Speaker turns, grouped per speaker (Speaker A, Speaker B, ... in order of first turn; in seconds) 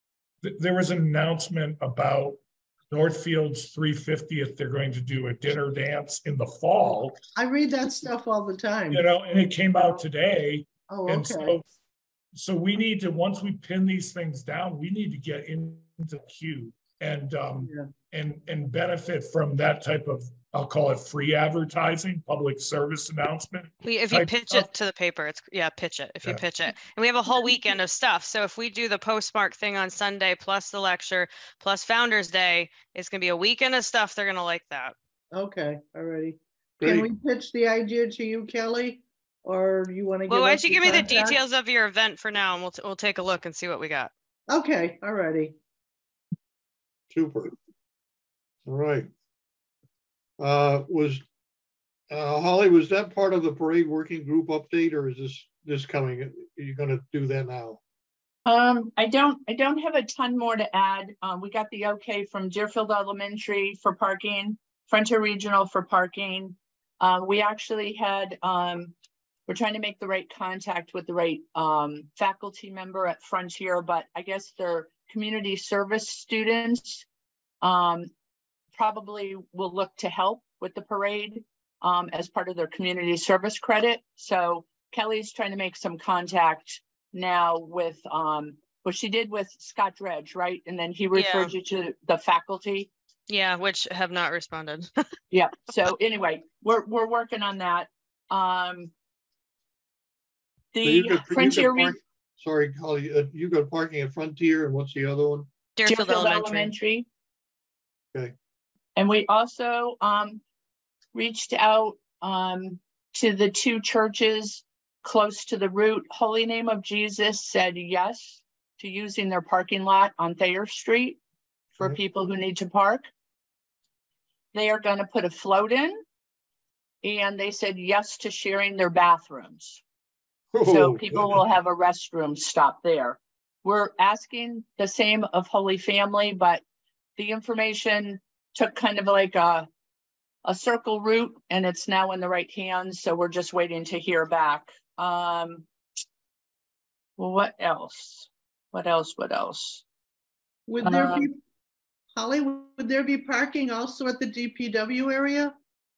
Speaker A: 0.4-7.2, 8.9-11.6, 12.3-24.7
Speaker B: 7.4-9.1, 10.9-11.6, 17.6-17.9, 35.3-41.4, 44.5-45.6, 150.7-151.4, 152.2-155.6
Speaker C: 23.8-35.0, 40.3-44.1, 91.1-91.5, 93.3-94.9, 105.8-106.7
Speaker D: 36.8-37.1, 47.1-47.5, 48.7-49.1, 50.4-51.2, 52.1-57.8, 100.8-105.5, 130.5-131.4
Speaker E: 58.5-68.9, 69.5-77.1, 77.6-78.1, 78.8-92.9, 95.3-98.9, 100.7-102.0, 105.9-107.1, 109.0-110.4, 111.1-121.2, 121.8-123.1, 124.5-126.0, 127.0-129.8, 130.7-136.6, 137.2-139.7, 140.4-145.7, 147.2-149.8, 150.8-151.3